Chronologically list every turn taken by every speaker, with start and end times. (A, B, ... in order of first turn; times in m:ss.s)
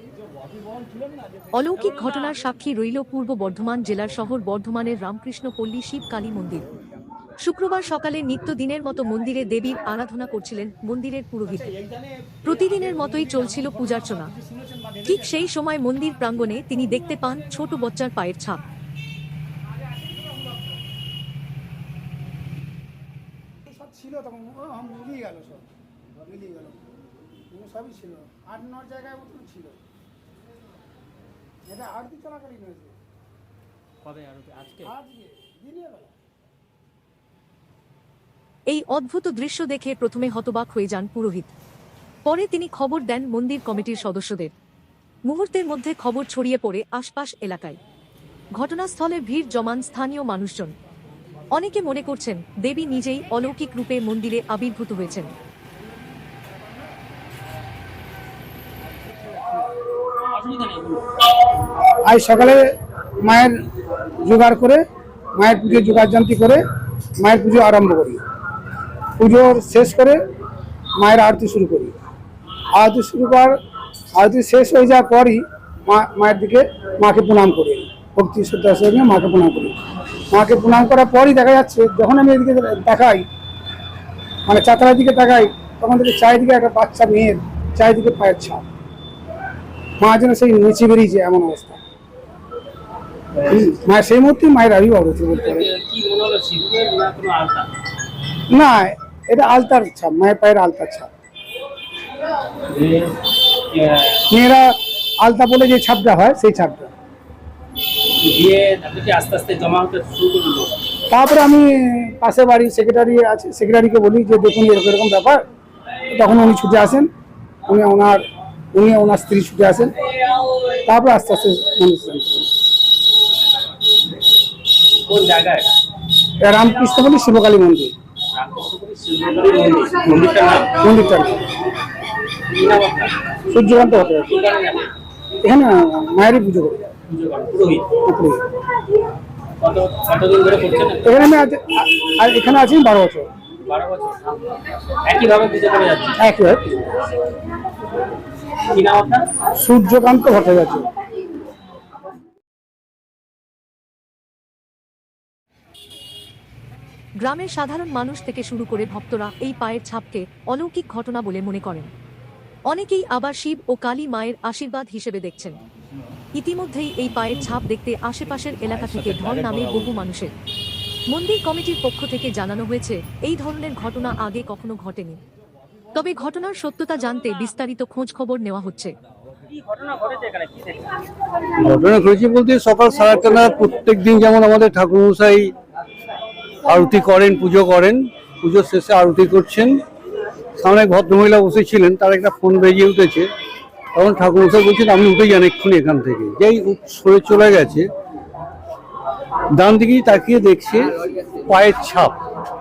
0:01.5-0:06.6 A
0:07.4-0:11.7 A
0:12.4-0:14.3 A
0:15.0-0:18.6 A
0:23.7-0:25.7 B
0:26.2-0:26.8 B
0:27.5-0:29.8 B
0:31.7-0:32.9 B
0:34.4-0:34.7 C
0:34.8-0:36.1 B
0:38.7-0:41.5 A
0:42.2-0:44.5 A
0:45.3-0:47.8 A
0:48.5-0:50.7 A
0:51.5-0:55.3 A
1:00.3-1:01.1 C
1:02.0-1:02.6 B
1:03.2-1:03.6 B
1:04.2-1:04.8 B
1:05.4-1:06.6 B
1:07.2-1:08.2 B
1:09.2-1:10.2 B
1:11.0-1:11.9 B
1:12.8-1:13.5 B
1:14.2-1:19.7 B
1:20.3-1:23.2 B
1:24.5-1:28.6 B
1:30.0-1:31.8 B
1:33.5-1:35.7 B
1:35.3-1:37.7 C
1:38.5-1:41.1 B
1:42.7-1:44.2 C
1:44.3-1:46.9 B
1:48.2-1:50.8 C
1:51.1-1:55.4 B
1:56.1-1:57.1 B
1:57.7-1:58.2 B
1:58.7-1:59.9 B
2:00.8-2:02.5 B
2:05.0-2:05.8 C
2:06.4-2:07.9 B
2:08.3-2:10.7 C
2:10.8-2:11.4 B
2:12.5-2:13.2 C
2:13.5-2:14.3 B
2:14.3-2:14.9 C
2:15.4-2:16.9 B
2:17.1-2:17.9 C
2:18.0-2:18.4 B
2:19.6-2:21.2 C
2:21.0-2:23.3 B
2:23.6-2:24.3 C
2:25.0-2:26.2 C
2:26.2-2:26.8 B
2:28.7-2:29.2 C
2:29.6-2:30.9 B
2:37.2-2:41.9 A
2:42.7-2:45.6 A
2:46.3-2:50.3 A
2:51.1-2:55.2 A
2:55.9-2:58.9 A
2:59.5-3:00.9 C
3:01.6-3:05.5 D
3:06.6-3:09.8 D
3:10.6-3:13.3 D
3:13.9-3:17.9 D
3:19.6-3:21.0 D
3:21.5-3:22.1 D